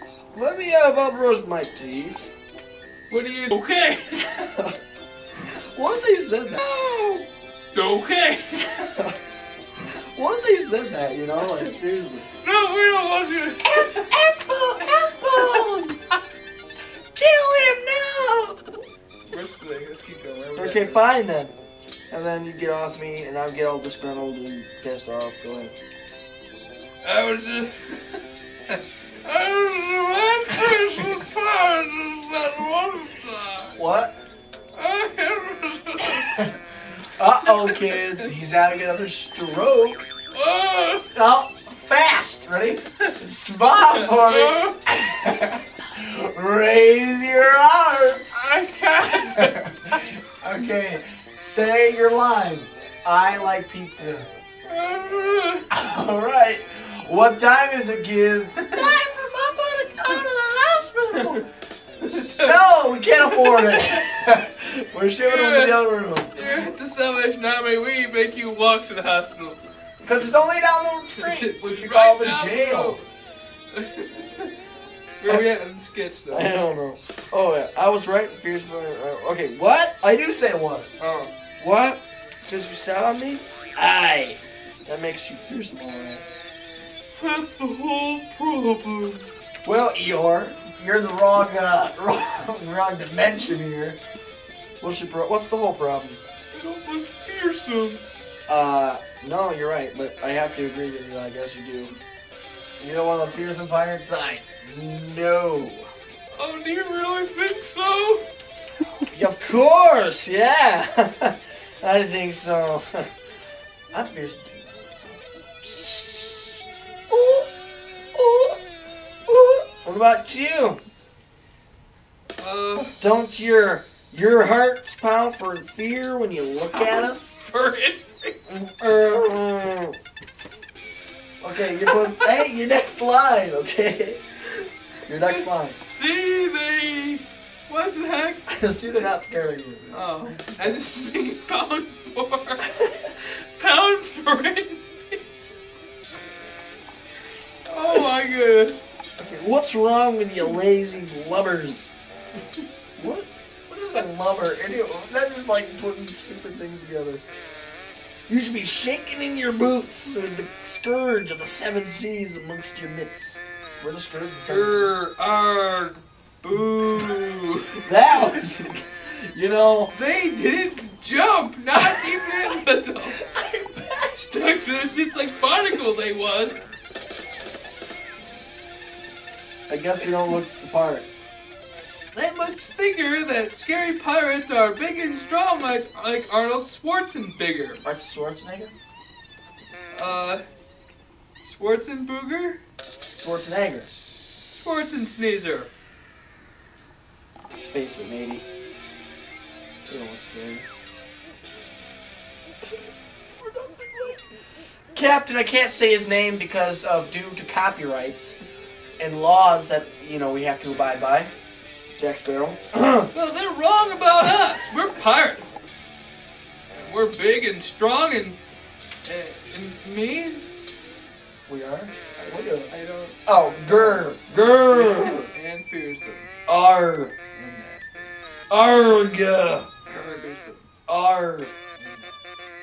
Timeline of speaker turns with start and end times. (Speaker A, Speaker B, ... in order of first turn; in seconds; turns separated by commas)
Speaker A: 0.3-2.3, Speaker B: 3.1-4.2, Speaker A: 4.2-4.8, Speaker A: 5.4-7.0, Speaker B: 7.7-8.9, Speaker A: 8.7-9.2, Speaker A: 10.1-12.2, Speaker B: 12.4-14.1, Speaker A: 13.6-16.1, Speaker B: 14.9-15.7, Speaker A: 17.1-18.8, Speaker B: 19.3-21.1, Speaker A: 20.6-21.6, Speaker A: 22.1-25.8, Speaker B: 27.0-33.8, Speaker A: 33.8-34.1, Speaker B: 34.7-36.5, Speaker A: 36.1-40.1, Speaker B: 37.5-38.1, Speaker B: 40.3-41.1, Speaker A: 41.1-48.3, Speaker B: 43.8-44.9, Speaker B: 48.3-50.1, Speaker A: 49.0-54.3, Speaker B: 54.6-55.7, Speaker A: 55.7-61.5, Speaker B: 58.6-58.9, Speaker B: 62.0-64.1, Speaker A: 62.4-66.5, Speaker B: 65.2-65.8, Speaker B: 66.3-69.6, Speaker A: 70.0-73.0, Speaker B: 71.1-73.1, Speaker B: 73.7-74.5, Speaker B: 75.2-76.5, Speaker A: 76.3-80.9, Speaker B: 81.0-81.3, Speaker A: 81.6-86.2, Speaker B: 87.1-89.3, Speaker A: 89.6-94.0, Speaker A: 94.8-96.2, Speaker B: 96.5-98.0, Speaker A: 98.5-101.9, Speaker A: 102.8-105.9, Speaker B: 106.3-108.2, Speaker A: 109.1-113.1, Speaker A: 113.9-116.0, Speaker A: 117.1-117.5, Speaker A: 118.1-118.6, Speaker A: 119.3-120.8, Speaker B: 122.4-123.0, Speaker A: 122.9-127.4, Speaker B: 126.7-128.3, Speaker A: 128.5-130.0, Speaker A: 131.4-134.2, Speaker B: 132.0-132.3, Speaker A: 135.1-135.8, Speaker B: 135.2-138.5, Speaker A: 138.5-140.1, Speaker B: 139.9-145.2, Speaker B: 147.7-148.8, Speaker A: 149.2-151.9, Speaker A: 153.0-157.2, Speaker A: 158.3-164.9, Speaker B: 164.4-167.9, Speaker A: 167.8-169.9, Speaker B: 169.9-173.2, Speaker A: 171.8-172.6, Speaker A: 173.2-174.5, Speaker B: 174.2-176.6, Speaker A: 179.7-181.1, Speaker B: 182.1-187.8, Speaker A: 187.8-188.7, Speaker B: 189.9-190.4, Speaker B: 191.4-192.6, Speaker A: 193.2-193.9, Speaker B: 194.5-195.7, Speaker A: 197.7-198.4, Speaker A: 199.9-200.7, Speaker B: 203.5-204.2, Speaker A: 204.9-208.4, Speaker A: 209.0-211.3, Speaker A: 212.0-213.1, Speaker B: 213.1-215.6, Speaker B: 216.7-218.4, Speaker B: 219.1-220.5, Speaker A: 221.5-225.3, Speaker B: 222.2-226.3, Speaker A: 226.5-227.1, Speaker B: 227.3-228.1, Speaker A: 228.5-229.7, Speaker B: 229.9-230.7, Speaker A: 230.9-231.5, Speaker B: 231.8-232.2